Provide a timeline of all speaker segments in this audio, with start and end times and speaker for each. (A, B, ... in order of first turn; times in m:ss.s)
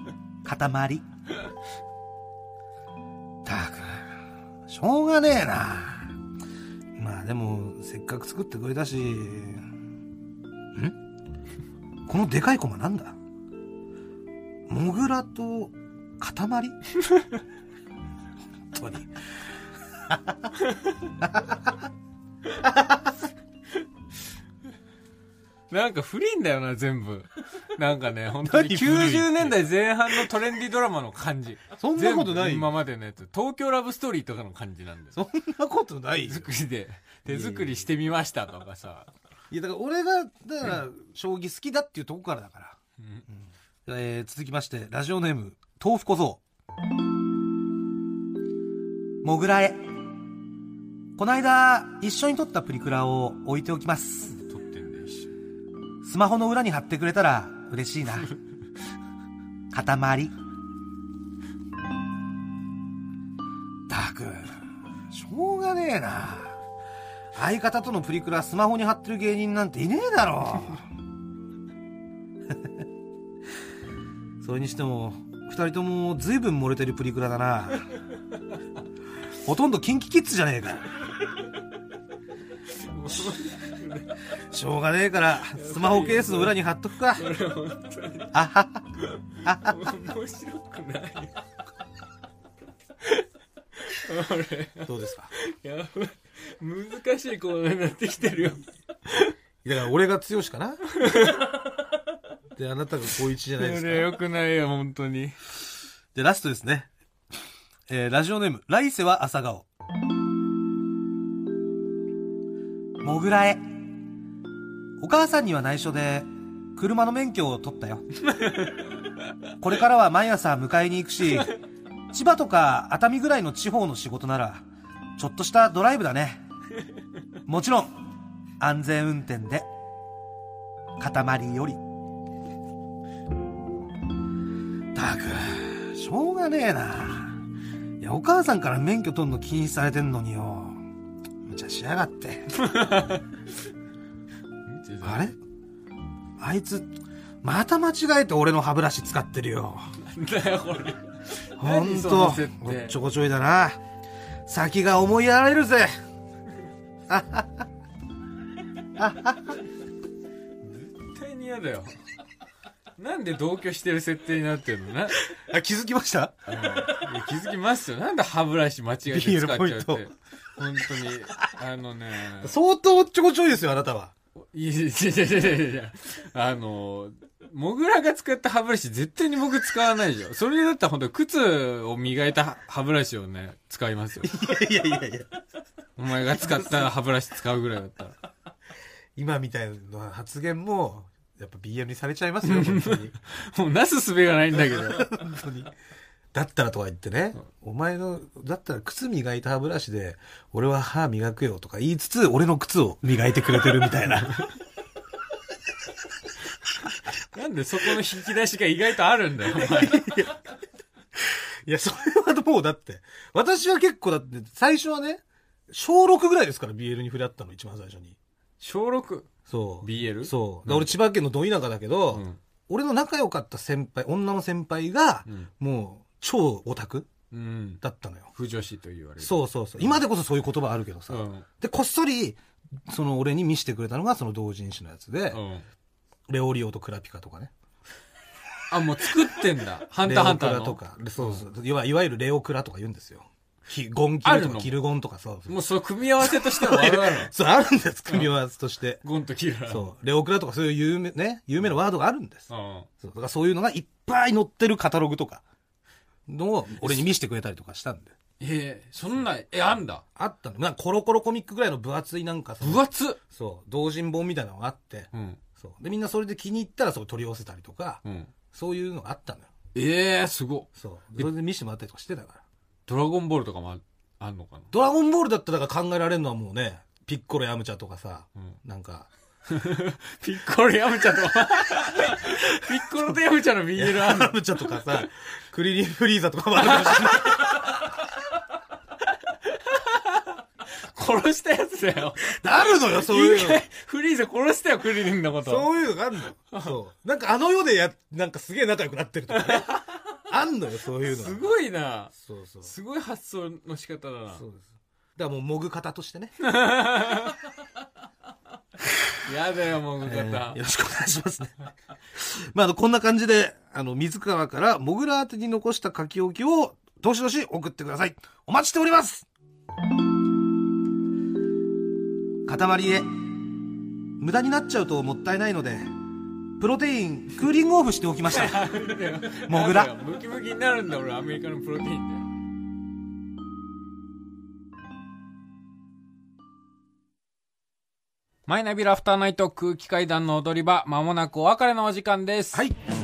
0:00.4-0:01.0 A
0:03.4-0:06.2 A
0:07.0-0:09.7 A
0:12.1-0:13.2 A
0:14.7-0:16.8 A
0:18.7-0:19.1 A
0:20.0-0:20.5 A
0:21.2-0:21.8 A
0:22.6-0:23.1 A
0:25.7-0:35.2 B
0:28.4-0:29.6 A
0:31.8-0:32.7 A
0:35.1-0:36.5 A
0:36.2-0:39.1 B
0:37.2-0:37.9 A
0:39.5-0:42.8 A
0:43.3-0:46.4 A
0:49.2-0:49.9 A
0:51.2-0:54.4 A
0:54.2-0:55.3 B
0:56.0-0:58.3 A
0:59.7-1:00.4 A
1:03.9-1:06.6 A
1:07.3-1:10.9 A
1:12.5-1:12.8 A
1:14.4-1:17.9 A
1:19.4-1:20.9 A
1:22.8-1:24.1 B
1:24.5-1:27.3 A
1:25.6-1:26.6 B
1:27.2-1:28.4 B
1:28.3-1:28.9 A
1:29.4-1:29.9 A
1:29.5-1:31.3 B
1:33.9-1:38.6 B
1:34.8-1:35.3 A
1:39.6-1:40.8 A
1:41.0-1:41.5 B
1:42.5-1:44.2 A
1:43.5-1:45.4 B
1:46.1-1:46.9 A
1:47.9-1:49.7 A
1:53.0-1:53.8 A
1:55.0-1:58.0 A
1:58.3-1:58.8 B
1:59.6-2:01.6 A
2:02.1-2:04.6 A
2:05.2-2:06.4 A
2:07.5-2:08.0 A
2:08.6-2:09.7 A
2:11.0-2:11.8 A
2:14.9-2:17.4 A
2:18.0-2:20.8 A
2:21.4-2:22.5 A
2:22.6-2:23.2 B
2:24.6-2:25.3 B
2:25.0-2:25.4 A
2:26.4-2:29.9 A
2:30.0-2:33.0 B
2:31.6-2:33.8 A
2:34.4-2:35.9 A
2:37.1-2:37.7 A
2:39.0-2:39.6 A
2:40.7-2:41.9 B
2:43.0-2:45.2 B
2:45.2-2:47.0 A
2:46.5-2:52.5 B
2:49.1-2:50.0 A
2:51.0-2:51.4 A
2:52.4-2:54.1 A
2:54.5-3:04.4 B
3:04.2-3:05.3 A
3:06.0-3:08.2 B
3:06.3-3:06.9 A
3:09.2-3:13.1 A
3:12.4-3:15.2 B
3:14.5-3:15.7 A
3:16.3-3:24.4 A
3:27.3-3:30.0 B
3:29.5-3:30.5 A
3:31.1-3:38.2 A
3:38.6-3:41.0 B
3:39.5-3:47.1 A
3:42.1-3:42.4 B
3:47.3-3:47.8 B
3:47.8-3:48.3 A
3:48.3-3:50.0 B
3:49.2-3:55.4 A
3:51.1-3:51.4 B
3:55.3-3:55.6 B
3:56.3-3:57.5 A
3:58.7-4:01.4 B
4:00.0-4:05.6 A
4:04.2-4:04.7 B
4:05.5-4:07.3 B
4:06.2-4:09.0 A
4:08.1-4:08.3 B
4:09.0-4:09.8 B
4:09.7-4:12.5 A
4:12.5-4:12.9 B
4:13.0-4:15.4 A
4:16.3-4:18.1 A
4:18.4-4:20.0 B
4:20.2-4:28.0 A
4:22.6-4:23.2 B
4:25.1-4:25.4 B
4:28.0-4:28.3 B
4:28.5-4:29.5 A
4:29.7-4:31.3 B
4:30.8-4:32.4 A
4:32.9-4:34.7 B
4:34.7-4:39.1 A
4:39.5-4:45.1 B
4:41.8-4:43.2 A
4:43.8-4:47.8 A
4:46.7-4:47.8 B
4:49.4-4:55.7 B
4:52.2-4:53.6 A
4:55.4-5:01.5 A
4:59.3-5:00.0 B
5:01.0-5:04.4 B
5:02.1-5:02.7 A
5:04.3-5:06.3 A
5:06.4-5:07.4 B
5:09.2-5:10.6 B
5:10.0-5:11.6 A
5:12.1-5:19.3 A
5:22.4-5:23.1 A
5:24.2-5:25.9 A
5:26.6-5:30.0 A
5:28.3-5:32.3 B
5:38.5-5:42.6 B